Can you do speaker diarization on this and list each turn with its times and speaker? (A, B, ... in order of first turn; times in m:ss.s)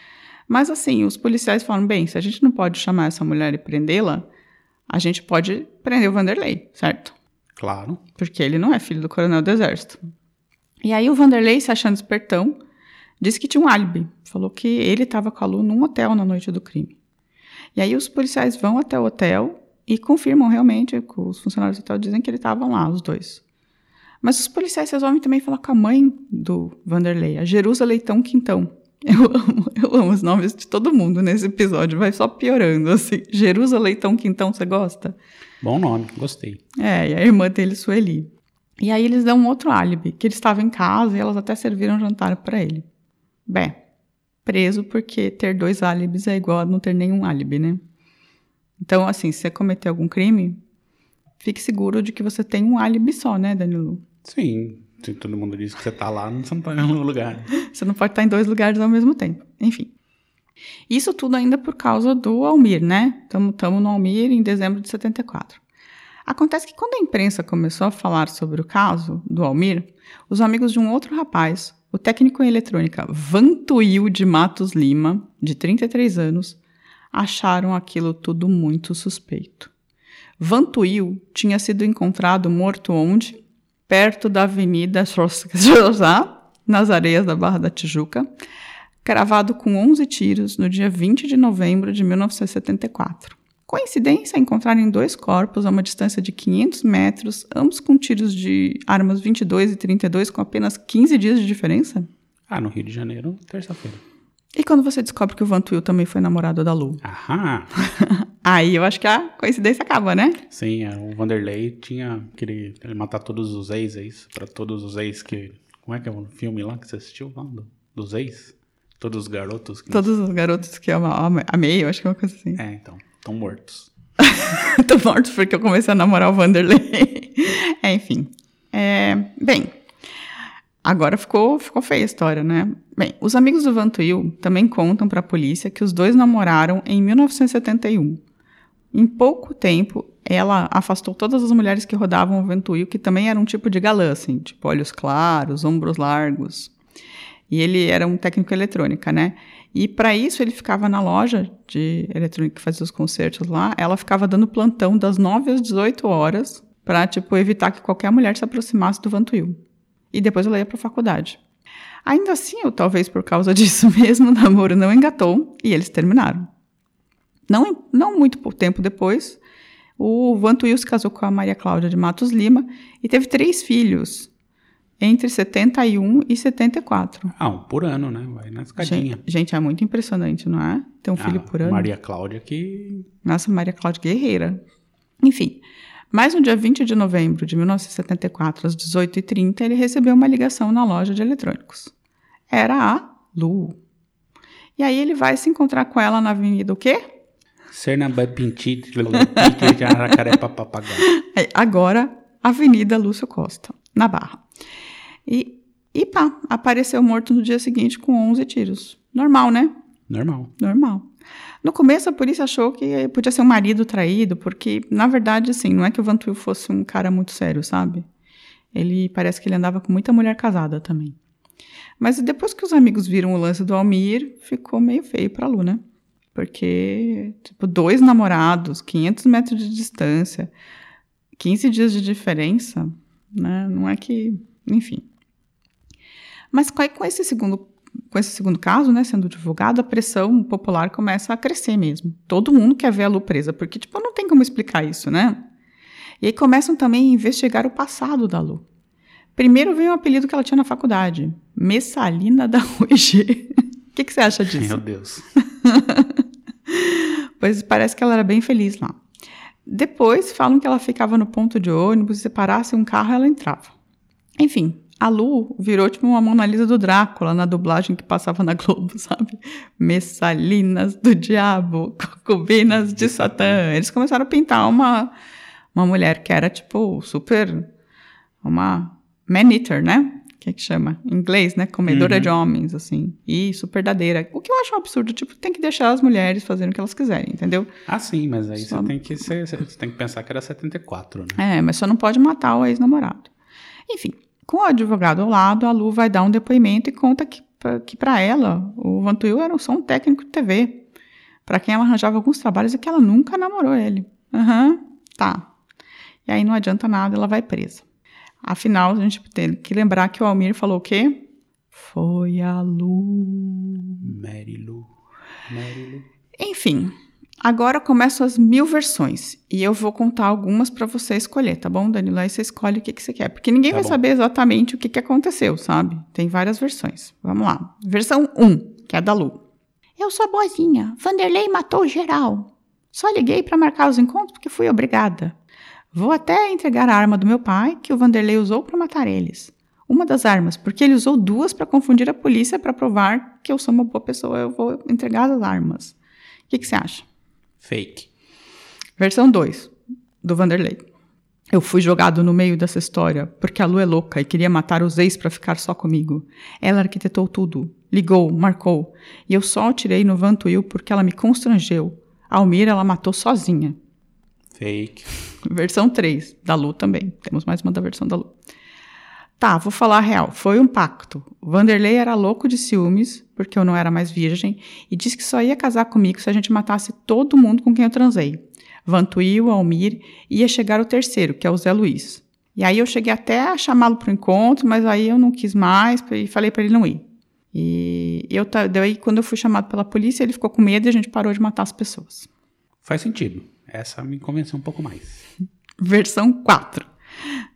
0:00.5-0:04.2 A
0:04.9-0:07.1 A
0:07.6-0:08.0 B
0:08.2-0:10.0 A
0:10.8-0:12.6 A
0:13.2-0:16.9 A
0:17.7-0:23.4 A
0:24.2-0:35.2 A
0:35.6-0:36.6 B
0:36.8-0:42.8 A
0:43.4-0:43.7 A
0:44.4-0:47.8 A
0:48.8-0:50.6 A
0:51.4-0:54.0 A
0:54.2-0:57.5 B
0:57.6-0:59.9 A
1:00.9-1:05.6 A
1:06.2-1:16.6 A
1:17.1-1:19.7 A
1:20.4-1:28.3 A
1:29.0-1:42.1 A
1:42.5-1:44.0 B
1:44.6-1:47.0 A
1:47.0-1:47.7 B
1:47.8-1:50.4 A
1:50.5-2:00.1 B
1:59.9-2:02.6 A
2:02.5-2:03.9 B
2:04.2-2:09.7 A
2:10.8-2:18.2 A
2:18.9-2:26.7 A
2:27.5-2:39.6 A
2:40.1-2:41.4 A
2:42.0-2:46.5 A
2:47.5-2:49.4 A
2:50.0-2:54.3 A
2:55.0-2:57.3 A
2:57.3-2:59.2 B
2:58.8-3:01.9 A
3:01.2-3:03.1 B
3:03.2-3:04.6 A
3:05.2-3:11.9 A
3:12.5-3:13.8 A
3:14.8-3:17.1 A
3:17.7-3:21.1 B
3:19.3-3:19.7 A
3:21.0-3:24.4 A
3:25.2-3:29.7 A
3:30.1-3:30.5 B
3:30.6-3:31.1 A
3:31.6-3:38.0 A
3:38.7-3:41.2 A
3:42.0-3:45.8 A
3:46.3-3:50.5 A
3:51.4-3:55.0 A
3:56.5-4:05.5 A
4:06.2-4:08.6 A
4:09.4-4:14.8 A
4:14.5-4:15.3 B
4:15.4-4:19.0 A
4:19.6-4:23.7 A
4:24.4-4:35.1 A
4:32.7-4:33.6 B
4:35.7-4:37.7 A
4:38.4-4:47.7 A
4:41.9-4:42.3 B
4:47.9-4:51.4 B
4:48.6-4:49.2 A
4:51.4-4:53.3 A
4:53.9-5:00.8 A
5:01.4-5:05.4 A
5:06.2-5:07.8 A
5:08.4-5:14.0 A
5:14.0-5:14.9 B
5:15.5-5:16.0 B
5:16.4-5:29.4 A
5:23.7-5:24.0 B
5:30.0-5:35.3 A
5:35.9-5:46.0 A
5:46.5-5:47.0 A
5:47.6-5:48.1 B
5:49.0-5:50.8 A
5:51.5-6:03.8 A
6:04.5-6:05.1 B
6:05.4-6:08.3 A
6:09.4-6:32.3 A
6:32.8-6:35.3 B
6:35.8-6:36.9 A